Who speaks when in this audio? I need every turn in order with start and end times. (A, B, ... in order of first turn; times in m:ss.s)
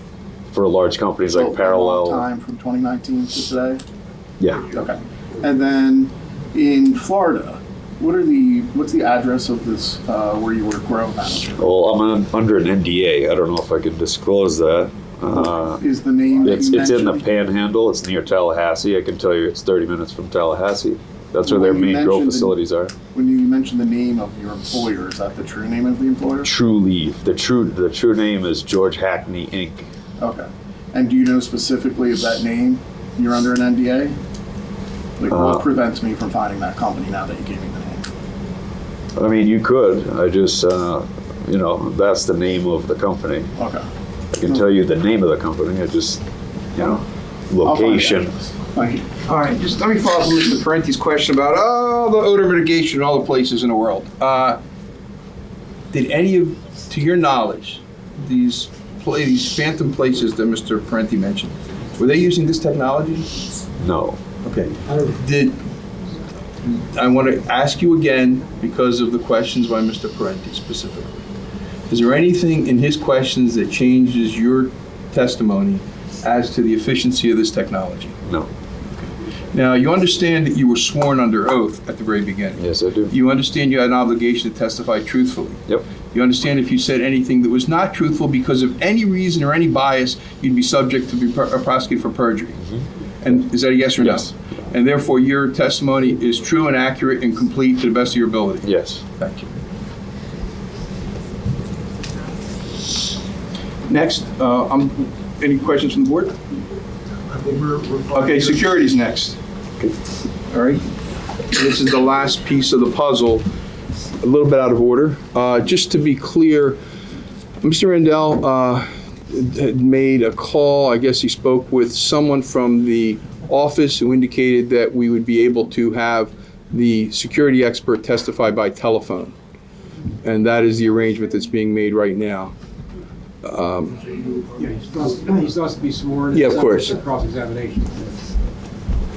0:00.5-0:02.2 A
0:01.3-0:03.8 B
0:04.7-0:11.6 B
0:11.6-0:15.8 A
0:15.3-0:17.2 B
0:16.4-0:22.9 A
0:21.4-0:22.5 B
0:23.1-0:26.5 B
0:26.4-0:29.9 A
0:30.2-0:34.2 B
0:35.2-0:38.0 B
0:35.3-0:35.6 A
0:39.2-0:43.5 A
0:43.6-0:43.8 B
0:44.3-0:46.2 A
0:46.7-0:48.3 A
0:47.6-0:49.1 B
0:49.2-0:54.6 C
0:55.9-1:03.3 C
1:03.8-1:04.2 A
1:04.4-1:05.6 C
1:06.6-1:11.2 C
1:11.9-1:18.2 C
1:19.5-1:32.6 C
1:22.6-1:23.1 A
1:33.2-1:39.5 C
1:38.6-1:39.0 A
1:43.9-1:46.4 C
1:48.0-1:49.4 C
1:50.5-1:50.8 C
1:51.5-1:53.5 C
1:54.2-1:56.8 C
1:57.6-2:09.3 C
2:10.2-2:12.5 C
2:13.4-2:14.0 C
2:14.5-2:18.1 D
2:16.3-2:17.0 C